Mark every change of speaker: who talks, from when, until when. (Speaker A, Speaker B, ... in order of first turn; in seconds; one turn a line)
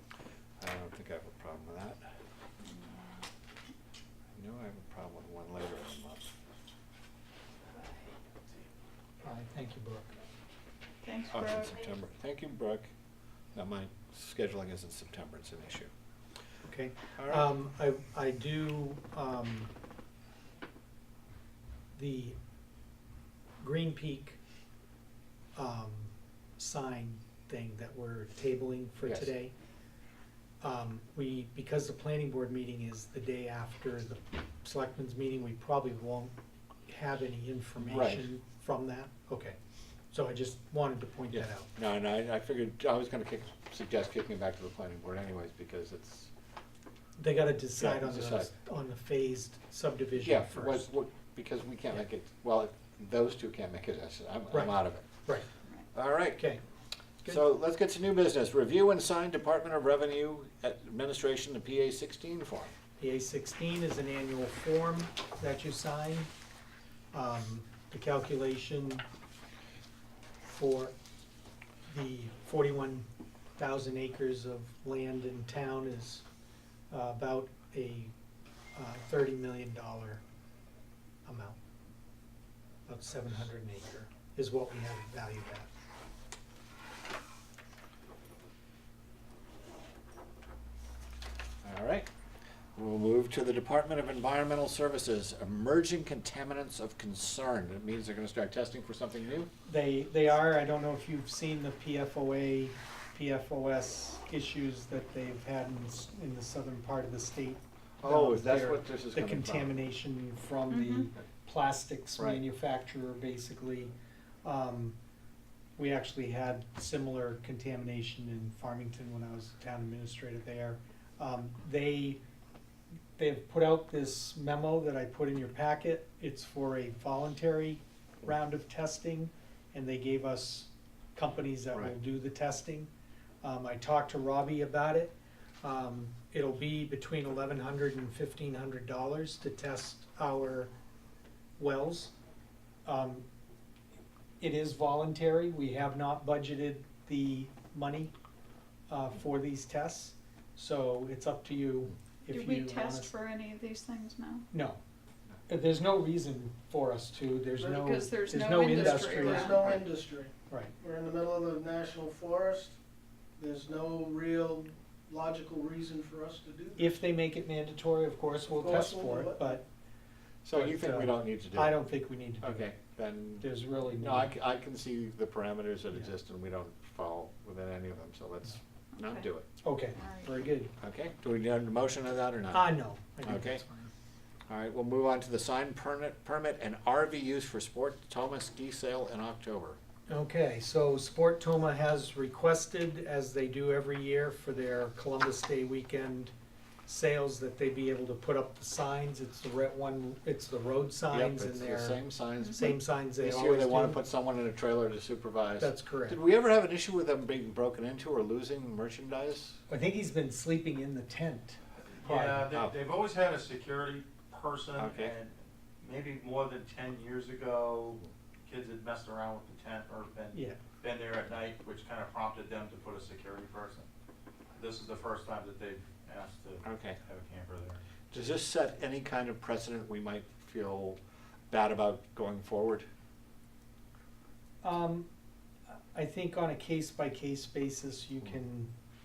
Speaker A: 0.6-2.0
Speaker B: 2.6-3.2
Speaker A: 4.3-6.3
Speaker C: 9.2-10.2
Speaker B: 11.0-11.9
Speaker A: 11.3-12.9
Speaker A: 13.5-15.9
Speaker C: 16.6-19.7
Speaker A: 17.2-17.5
Speaker C: 21.9-22.4
Speaker C: 23.6-24.4
Speaker C: 25.6-29.5
Speaker C: 30.6-36.3
Speaker C: 36.9-39.6
Speaker A: 37.8-38.3
Speaker C: 40.1-41.7
Speaker A: 41.3-46.3
Speaker C: 47.2-50.8
Speaker A: 47.8-48.5
Speaker A: 50.2-55.1
Speaker A: 55.9-56.5
Speaker C: 56.4-56.6
Speaker A: 57.2-62.7
Speaker C: 63.0-66.3
Speaker C: 67.1-69.0
Speaker C: 70.4-71.0
Speaker C: 71.9-73.0
Speaker C: 73.6-76.2
Speaker C: 76.9-78.1
Speaker C: 78.7-80.2
Speaker C: 81.2-81.6
Speaker C: 82.9-85.7
Speaker A: 91.6-92.1
Speaker A: 92.8-99.5
Speaker C: 99.7-113.9
Speaker A: 108.0-109.7
Speaker B: 110.7-111.1
Speaker C: 114.4-115.0
Speaker C: 115.8-122.2
Speaker C: 123.2-132.9
Speaker C: 133.4-140.7
Speaker C: 141.6-142.1
Speaker C: 142.8-143.2
Speaker C: 144.4-148.1
Speaker C: 148.9-153.1
Speaker B: 152.3-154.4
Speaker C: 154.5-154.8
Speaker C: 155.5-159.8
Speaker D: 157.6-157.9
Speaker B: 157.7-159.7
Speaker D: 158.6-162.8
Speaker C: 160.5-160.7
Speaker D: 163.4-166.9
Speaker C: 166.8-169.7
Speaker D: 168.5-169.6
Speaker A: 170.4-171.8
Speaker C: 170.5-172.7
Speaker A: 172.4-179.4
Speaker C: 173.4-174.3
Speaker C: 179.6-180.7
Speaker B: 180.0-180.3
Speaker A: 180.8-182.7
Speaker C: 182.5-183.9
Speaker A: 183.2-183.6
Speaker A: 184.5-189.8
Speaker C: 190.1-196.3
Speaker C: 196.8-202.0
Speaker A: 201.1-209.6
Speaker C: 202.5-204.0
Speaker C: 205.6-206.2
Speaker C: 209.7-212.4
Speaker E: 211.9-223.9
Speaker A: 214.8-215.1
Speaker C: 220.3-220.6
Speaker E: 224.6-227.8
Speaker A: 226.6-227.0
Speaker A: 228.1-231.0
Speaker A: 231.5-232.9
Speaker C: 234.6-235.1
Speaker C: 235.9-238.7